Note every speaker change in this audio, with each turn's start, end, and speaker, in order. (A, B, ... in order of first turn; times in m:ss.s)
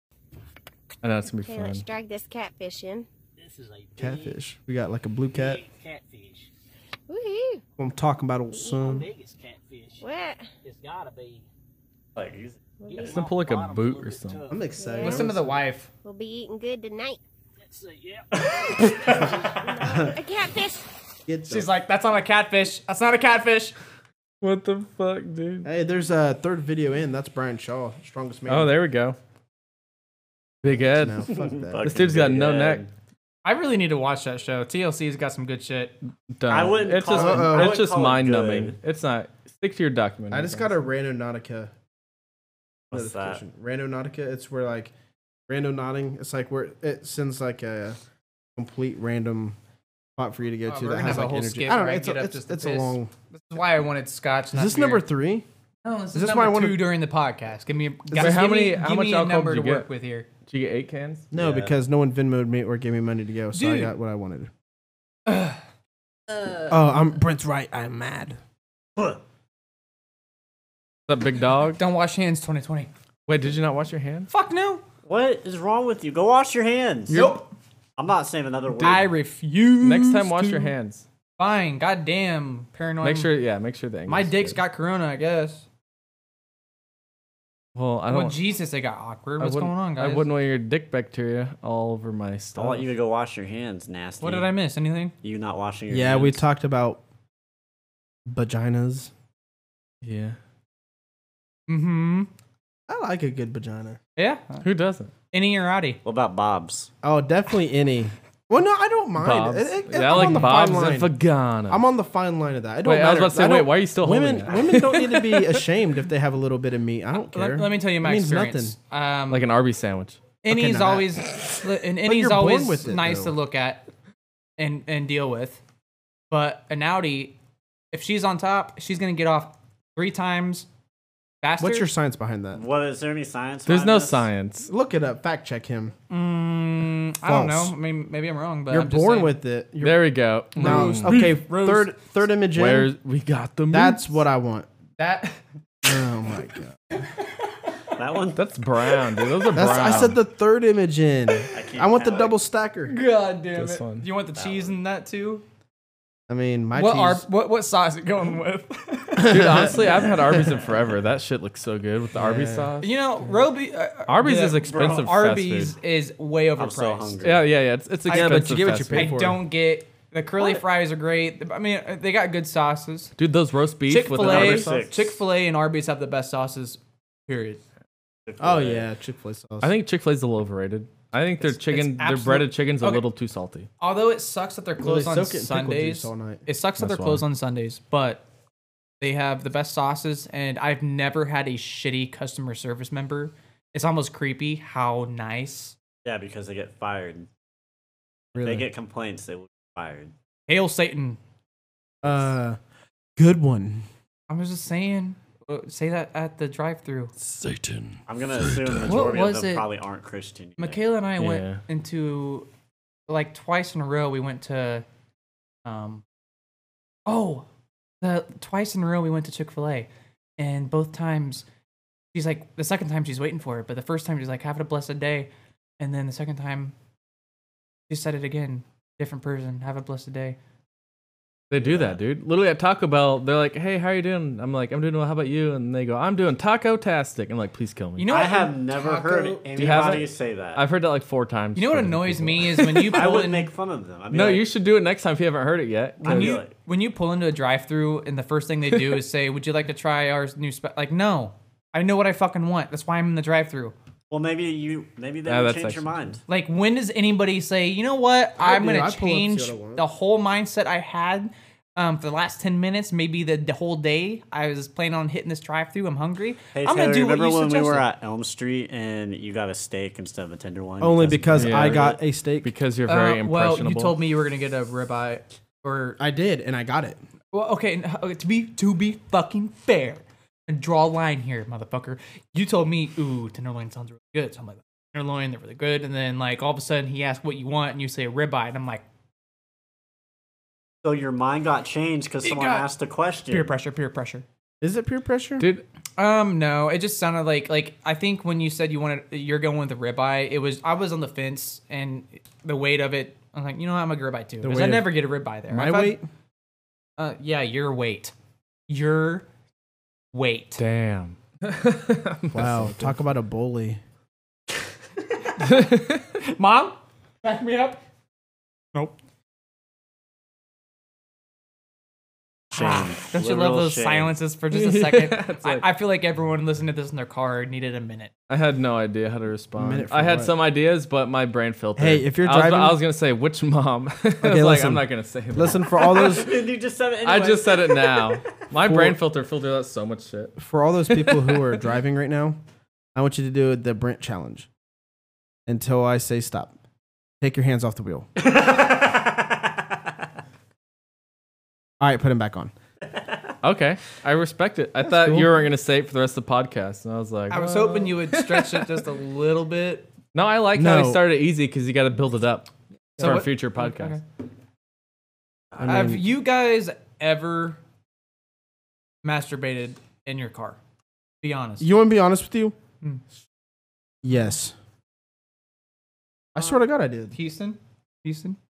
0:01.0-0:01.8 A
0:01.4-0:03.1 B
0:03.4-0:04.4 C
0:04.0-0:05.6 D
0:05.3-0:06.5 C
0:07.1-0:07.6 B
0:07.8-0:09.1 D
0:08.5-0:09.0 B
0:08.8-0:10.1 C
0:10.0-0:10.5 B
0:10.6-0:11.4 C
0:12.2-0:12.6 E
0:12.8-0:13.2 B
0:12.9-0:14.9 C
0:13.0-0:14.4 A
0:14.5-0:15.5 D
0:14.8-0:15.3 B
0:15.0-0:15.9 F
0:16.0-0:17.2 B
0:17.6-0:19.5 C
0:18.9-0:19.3 E
0:19.1-0:20.9 B
0:19.8-0:20.1 D
0:21.3-0:21.7 D
0:21.5-0:23.8 F
0:24.4-0:25.7 A
0:25.6-0:28.8 D
0:28.5-0:29.2 A
0:30.6-0:32.8 A
0:30.9-0:31.9 D
0:31.3-0:32.9 E
0:33.4-0:36.0 F
0:36.3-0:40.7 A
0:36.5-0:38.8 E
0:37.1-0:37.8 D
0:40.3-0:41.7 D
0:42.9-0:43.4 E
0:42.9-0:44.9 D
0:45.5-0:48.0 D
0:48.6-0:49.6 D
0:50.2-0:53.1 D
0:50.7-0:55.1 F
0:54.5-0:55.5 D
0:55.8-1:00.3 F
0:56.1-0:56.9 D
0:58.1-0:58.4 D
0:58.2-0:59.9 A
1:00.4-1:01.3 A
1:01.3-1:04.5 D
1:01.3-1:01.7 E
1:03.5-1:03.9 F
1:05.3-1:05.6 F
1:06.7-1:08.4 D
1:11.1-1:11.8 A
1:11.8-1:12.9 F
1:13.3-1:14.3 A
1:14.3-1:14.8 F
1:15.0-1:17.2 E
1:17.1-1:17.4 A
1:17.1-1:17.5 F
1:18.0-1:19.1 E
1:18.8-1:20.7 F
1:19.8-1:21.1 A
1:21.4-1:23.3 F
1:23.0-1:24.6 A
1:24.1-1:25.6 F
1:27.8-1:28.4 A
1:28.1-1:30.3 F
1:29.4-1:32.9 A
1:32.6-1:34.5 E
1:34.2-1:35.1 F
1:35.2-1:36.4 E
1:35.9-1:37.0 D
1:38.3-1:39.1 D
1:40.0-1:40.4 A
1:41.7-1:42.3 F
1:42.9-1:44.0 D
1:44.2-1:44.7 F
1:44.6-1:45.1 A
1:45.3-1:46.0 F
1:46.0-1:46.9 E
1:47.0-1:51.2 D
1:49.2-1:51.8 A
1:51.7-1:58.8 D
1:52.8-1:55.6 A
1:57.3-1:59.5 F
1:59.3-2:00.2 A
2:00.4-2:03.9 F
2:00.5-2:01.2 D
2:02.0-2:03.4 D
2:04.6-2:05.6 F
2:06.3-2:07.4 F
2:07.9-2:10.7 F
2:11.4-2:11.9 F
2:11.6-2:12.6 D
2:12.5-2:14.3 E
2:13.7-2:14.7 A
2:14.7-2:16.0 D
2:16.1-2:19.4 F
2:17.2-2:17.7 D
2:18.7-2:22.9 D
2:19.8-2:21.3 A
2:20.6-2:21.9 F
2:22.5-2:24.1 A
2:23.7-2:24.7 D
2:25.0-2:25.4 F
2:25.8-2:26.8 D
2:28.0-2:28.5 E
2:28.4-2:30.2 A
2:29.5-2:32.9 D
2:31.5-2:32.4 E
2:32.9-2:35.4 F
2:33.6-2:34.1 A
2:34.4-2:34.8 E
2:36.3-2:37.3 D
2:36.8-2:39.8 F
2:39.2-2:40.1 D
2:39.2-2:42.9 A
2:42.1-2:42.8 D
2:42.8-2:47.2 F
2:44.1-2:45.7 A
2:44.6-2:45.1 E
2:46.6-2:47.5 E
2:47.2-2:49.2 A
2:48.1-2:49.4 D
2:48.1-2:53.2 F
2:53.2-2:54.8 A
2:53.9-2:57.6 F
2:54.2-2:55.2 E
2:58.3-2:58.9 E
2:58.4-2:59.8 D
2:59.6-3:03.7 A
3:01.4-3:03.0 F
3:03.8-3:08.2 F
3:04.8-3:07.2 D
3:09.0-3:15.8 F
3:16.0-3:17.3 E
3:18.3-3:18.7 D
3:18.4-3:20.1 E
3:20.5-3:21.2 F
3:22.0-3:22.6 D
3:23.2-3:23.9 D
3:24.3-3:27.2 F
3:27.3-3:27.9 D
3:27.5-3:27.8 A
3:28.1-3:30.8 E
3:28.9-3:29.7 F
3:30.6-3:32.5 F
3:31.2-3:31.6 A
3:33.1-3:34.8 F
3:35.6-3:36.0 F
3:37.1-3:37.5 F
3:38.0-3:41.4 F
3:42.1-3:46.7 F
3:47.9-3:50.4 F
3:51.5-3:58.1 A
3:51.6-3:52.0 E
3:58.0-3:59.5 F
3:58.1-4:00.6 E
3:59.6-4:03.2 A
4:01.6-4:03.5 F
4:02.9-4:04.5 E
4:04.1-4:06.4 A
4:06.0-4:06.5 E
4:06.0-4:13.7 F
4:14.1-4:16.2 E
4:15.2-4:16.2 A
4:16.3-4:27.9 F
4:18.4-4:19.8 D
4:26.5-4:31.9 E
4:30.8-4:32.5 D
4:31.4-4:34.0 A
4:32.9-4:36.0 F
4:36.0-4:37.0 D
4:37.3-4:48.8 F
4:50.8-4:53.5 E
4:52.2-4:52.7 F
4:53.3-4:54.2 F
4:54.6-4:55.5 D
4:55.4-4:55.6 A
4:56.0-5:06.0 F
5:04.4-5:06.0 D
5:07.0-5:08.1 F
5:08.7-5:09.3 F
5:10.1-5:10.6 F
5:10.6-5:13.0 A
5:12.3-5:13.8 D
5:15.4-5:16.1 A
5:16.2-5:17.8 F
5:22.5-5:24.2 E
5:22.5-5:28.1 F
5:24.5-5:25.7 A
5:28.3-5:36.3 A
5:29.6-5:30.4 D
5:31.8-5:32.8 D
5:34.2-5:36.3 D
5:35.7-5:38.1 E
5:37.0-5:40.4 A
5:38.6-5:39.0 D
5:40.4-5:42.4 D
5:40.9-5:41.4 A
5:43.0-5:44.5 D
5:45.5-5:46.5 D
5:47.2-5:48.1 D
5:48.2-5:49.6 E
5:51.8-5:52.5 D
5:53.4-5:58.8 A
5:54.8-5:55.4 D
5:57.3-5:59.9 F
6:00.1-6:04.0 A
6:00.5-6:01.1 D
6:03.0-6:04.0 F
6:05.5-6:06.1 D
6:05.6-6:07.6 F
6:09.0-6:10.6 F
6:11.2-6:11.7 F
6:11.6-6:12.6 D
6:14.0-6:14.6 D
6:16.4-6:17.2 D
6:17.1-6:18.4 F